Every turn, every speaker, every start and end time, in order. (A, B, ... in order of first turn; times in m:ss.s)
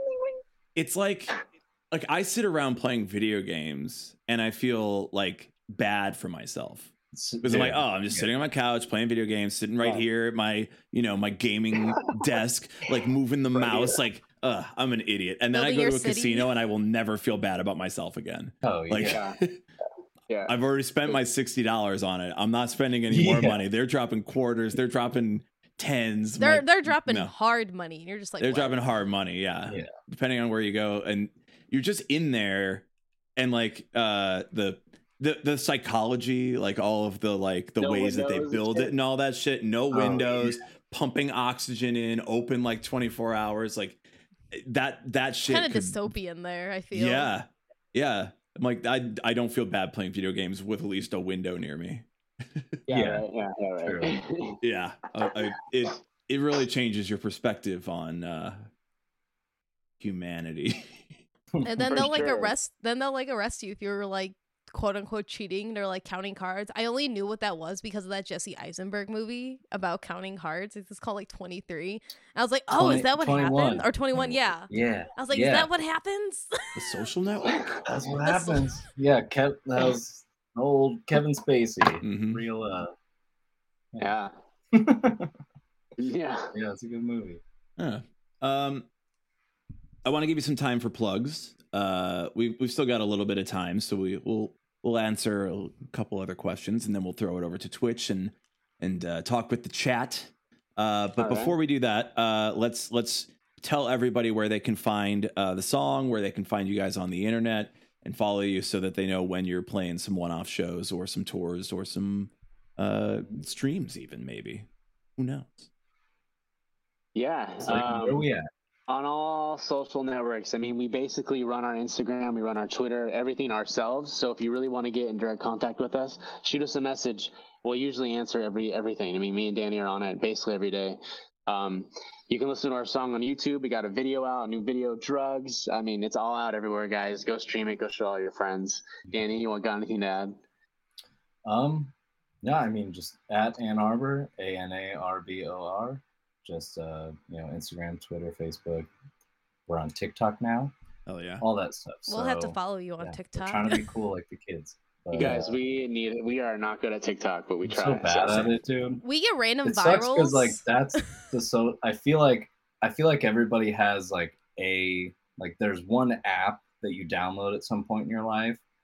0:00.8-0:06.9 A
0:07.1-0:08.3 B
0:07.4-0:19.6 A
0:13.5-0:14.0 C
0:15.5-0:16.5 D
0:18.6-0:19.2 B
0:19.1-0:19.4 C
0:20.3-0:20.5 C
0:20.5-0:27.3 A
0:23.1-0:23.6 B
0:26.4-0:28.8 D
0:28.4-0:44.0 A
0:37.8-0:38.9 C
0:39.9-0:40.6 B
0:44.5-0:46.0 A
0:45.5-0:47.3 D
0:46.9-0:52.8 A
0:52.9-0:54.6 C
0:52.9-0:53.2 B
0:53.8-0:54.2 B
0:54.6-0:58.7 A
1:00.0-1:01.1 A
1:01.5-1:02.1 B
1:01.6-1:16.5 D
1:01.9-1:02.5 C
1:12.7-1:15.7 B
1:16.8-1:17.7 A
1:17.4-1:18.1 C
1:17.8-1:22.9 B
1:18.2-1:18.8 D
1:22.0-1:22.4 A
1:24.0-1:24.3 C
1:24.7-1:25.3 B
1:26.0-1:26.5 C
1:26.5-1:27.4 B
1:27.8-1:28.9 A
1:30.0-1:54.7 A
1:41.2-1:41.5 C
1:55.2-1:55.7 A
1:57.2-1:58.3 C
1:57.6-1:58.5 B
1:58.9-2:20.4 C
2:21.4-2:28.9 B
2:29.7-2:30.7 B
2:31.1-2:31.4 A
2:31.4-2:35.5 B
2:32.1-2:33.8 D
2:35.1-2:38.5 C
2:37.6-2:39.0 B
2:39.0-2:40.6 D
2:39.6-2:48.6 B